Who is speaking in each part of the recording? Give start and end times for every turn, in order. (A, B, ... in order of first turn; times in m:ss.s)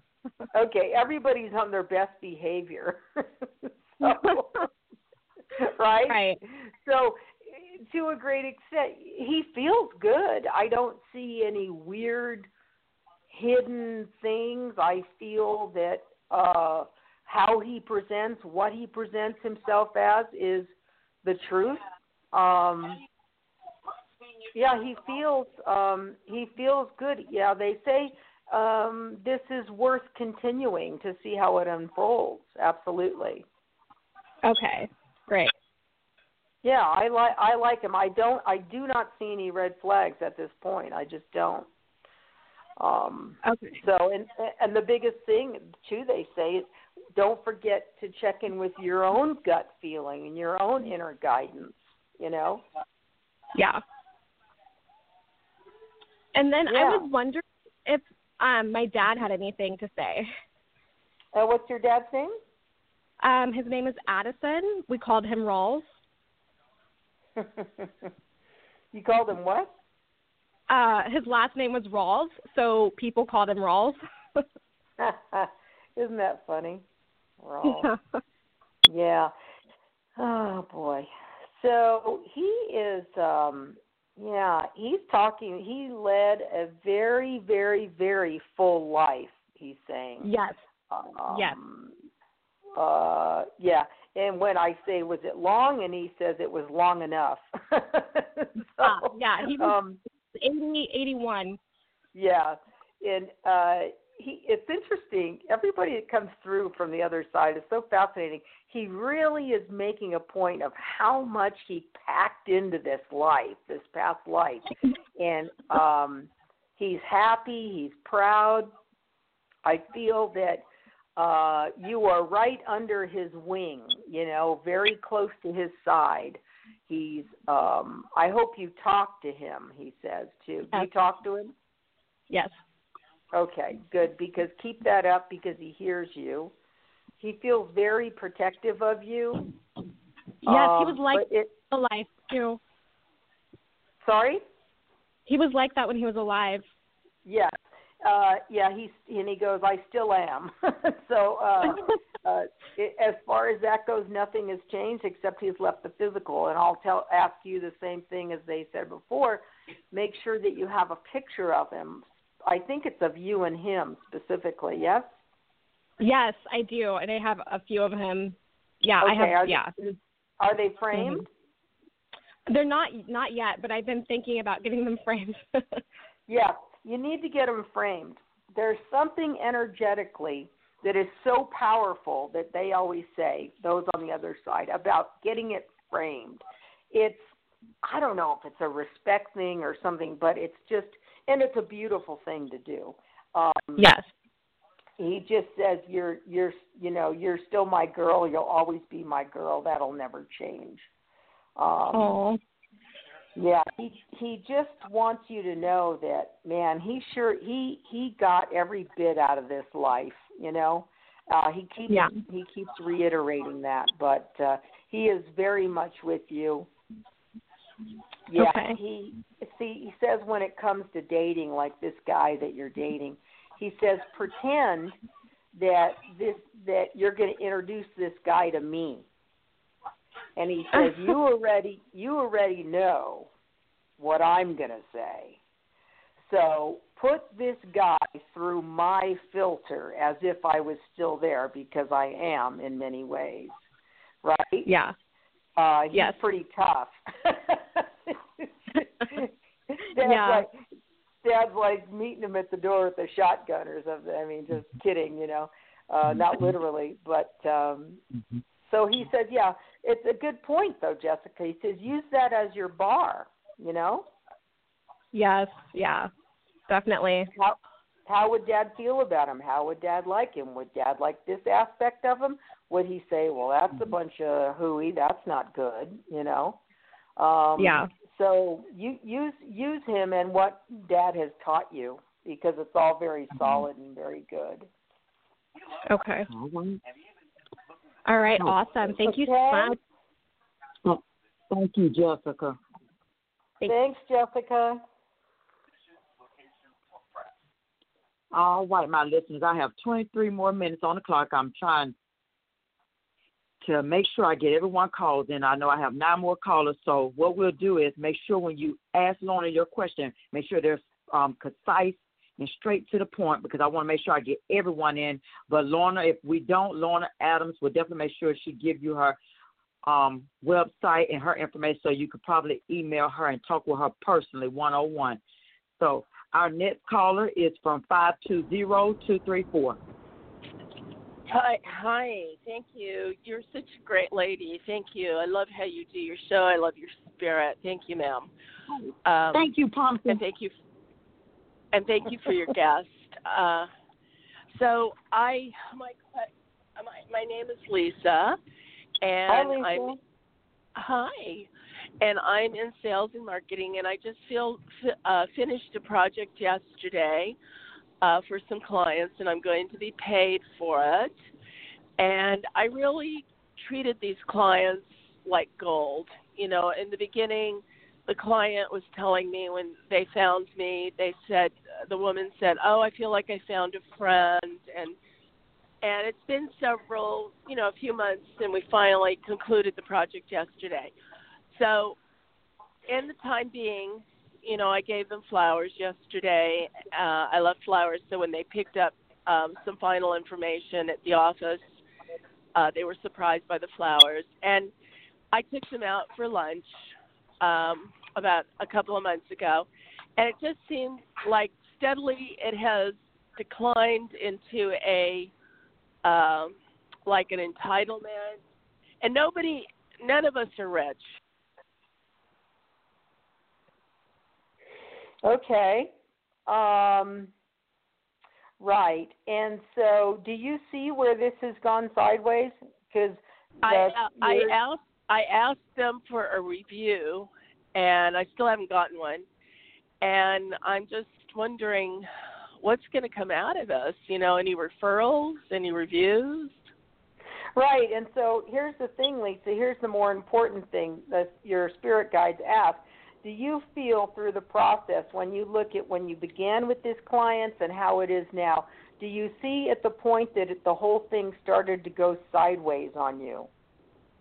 0:00.5-0:04.6 A
0:04.0-0:04.4 B
0:05.6-0:12.5 A
0:06.1-0:06.4 B
0:13.3-0:20.7 A
0:21.2-0:21.8 A
0:22.3-0:23.0 A
0:24.5-0:33.4 A
0:34.4-0:35.5 B
0:36.6-0:41.7 A
0:42.8-0:52.6 A
0:43.4-0:43.8 B
0:53.5-0:53.8 B
0:56.3-1:00.3 B
0:56.7-0:57.1 A
1:01.3-1:02.4 A
1:03.2-1:05.8 B
1:07.4-1:07.9 A
1:08.9-1:09.7 A
1:10.7-1:14.4 B
1:15.0-1:16.8 A
1:17.4-1:17.9 A
1:17.6-1:18.2 B
1:18.8-1:19.3 A
1:20.2-1:30.3 A
1:30.2-1:30.6 B
1:30.9-1:31.9 A
1:31.3-1:31.6 B
1:32.8-1:40.0 A
1:38.8-1:39.8 B
1:40.4-1:41.6 B
1:42.1-1:58.7 A
1:59.6-2:00.6 A
2:01.2-2:11.5 A
2:12.3-2:12.6 B
2:13.3-2:16.5 A
2:17.2-2:19.4 A
2:20.4-2:21.5 A
2:20.4-2:22.6 B
2:24.0-2:24.4 A
2:25.3-2:26.6 B
2:27.2-2:45.1 A
2:46.0-2:49.7 B
2:49.0-2:51.2 A
2:50.9-2:51.2 B
2:52.5-2:55.8 B
2:56.3-3:07.2 A
3:07.8-3:13.9 A
3:13.8-3:14.1 B
3:15.0-3:20.9 A
3:21.6-3:22.1 A
3:21.9-3:22.4 B
3:23.4-3:36.7 A
3:31.9-3:32.2 B
3:38.3-3:44.9 A
3:38.4-3:38.8 B
3:45.5-3:49.0 A
3:50.4-3:53.3 A
3:50.7-3:51.1 B
3:54.0-3:55.4 A
3:56.2-4:03.6 A
4:04.2-4:04.7 A
4:04.6-4:04.9 B
4:05.6-4:09.3 A
4:05.9-4:06.2 B
4:09.8-4:10.6 A
4:10.0-4:10.5 B
4:11.2-4:18.0 A
4:18.6-4:24.1 A
4:25.1-4:26.1 B
4:26.7-4:27.3 B
4:27.3-4:36.6 A
4:37.2-4:44.7 A
4:37.6-4:37.9 B
4:45.9-4:46.3 B
4:46.3-4:46.8 C
4:48.0-4:49.8 B
4:49.0-4:49.8 A
4:50.8-4:52.6 C
4:53.6-4:54.8 A
4:58.3-5:01.9 C
5:03.6-5:19.2 C
5:19.8-5:25.2 C
5:25.8-5:29.8 C
5:31.3-5:38.3 D
5:38.7-5:40.2 C
5:39.0-5:39.5 D
5:40.0-5:40.5 D
5:41.7-5:43.7 D
5:44.5-5:48.4 D
5:49.0-5:50.0 D
5:49.3-5:50.0 A
5:50.8-5:51.5 D
5:52.0-5:57.4 D
5:58.0-6:01.1 D
6:02.0-6:15.0 D
6:15.8-6:20.9 D
6:21.5-6:22.0 D
6:22.9-6:31.8 D
6:32.5-6:34.7 D
6:35.3-6:36.7 D
6:37.4-6:45.3 D
6:46.0-6:48.4 D
6:49.0-6:51.0 D
6:55.2-6:55.9 A
6:56.5-6:57.3 A
6:58.6-7:04.6 A
7:03.6-7:09.2 D
7:10.0-7:12.1 D
7:12.6-7:16.7 D
7:17.6-7:33.5 A